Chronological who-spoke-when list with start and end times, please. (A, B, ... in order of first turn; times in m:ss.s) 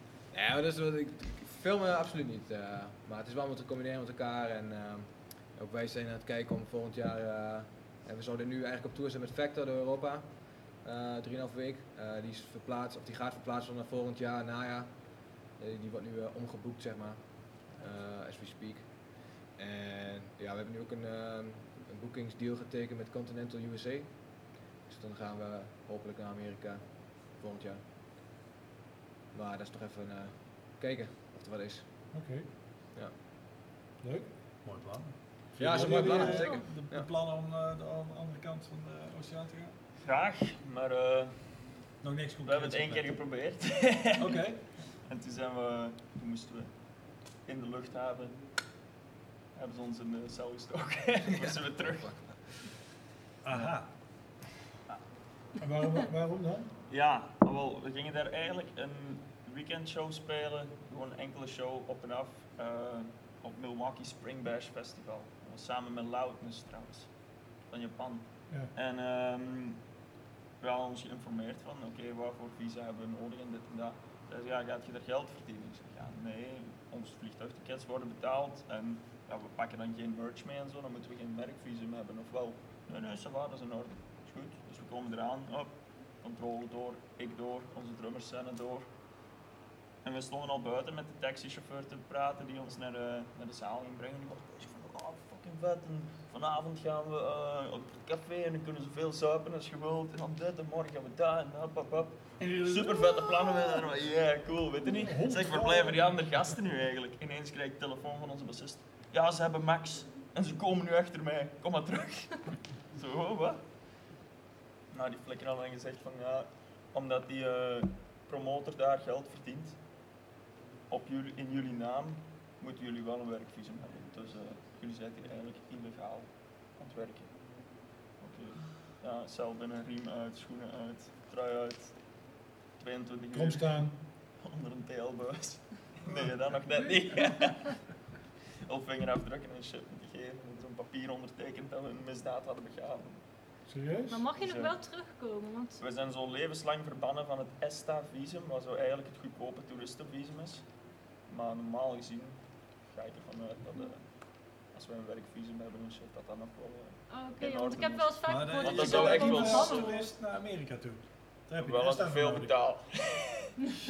0:00.3-0:27.8 A
0:29.3-0:32.1 A
0:32.1-0:32.5 B
0:34.0-0:34.3 B
0:34.6-0:39.8 C
0:35.6-0:37.1 A
0:36.1-0:36.6 D
0:40.0-0:41.5 E
0:42.0-0:43.1 C
0:42.4-0:44.4 E
0:44.2-0:44.7 C
0:45.0-0:46.7 E
0:47.4-0:48.4 E
0:49.5-0:52.5 E
0:51.8-0:52.2 A
0:53.4-0:53.9 C
0:53.5-0:53.8 E
0:55.6-0:56.7 B
0:56.9-1:07.1 E
1:07.7-1:09.8 E
1:10.6-1:28.9 E
1:30.0-1:53.6 E
1:42.4-1:43.7 C
1:44.8-1:46.2 B
1:54.9-1:59.8 E
2:00.9-2:07.3 E
2:08.2-2:12.0 E
2:12.8-2:17.7 E
2:13.3-2:13.9 B
2:18.6-2:23.2 E
2:23.7-2:24.2 B
2:24.1-2:25.8 D
2:24.3-2:24.8 E
2:25.8-2:30.6 E
2:31.3-2:34.0 E
2:34.7-2:39.9 E
2:37.1-2:40.1 D
2:38.2-2:42.5 C
2:41.6-2:43.5 E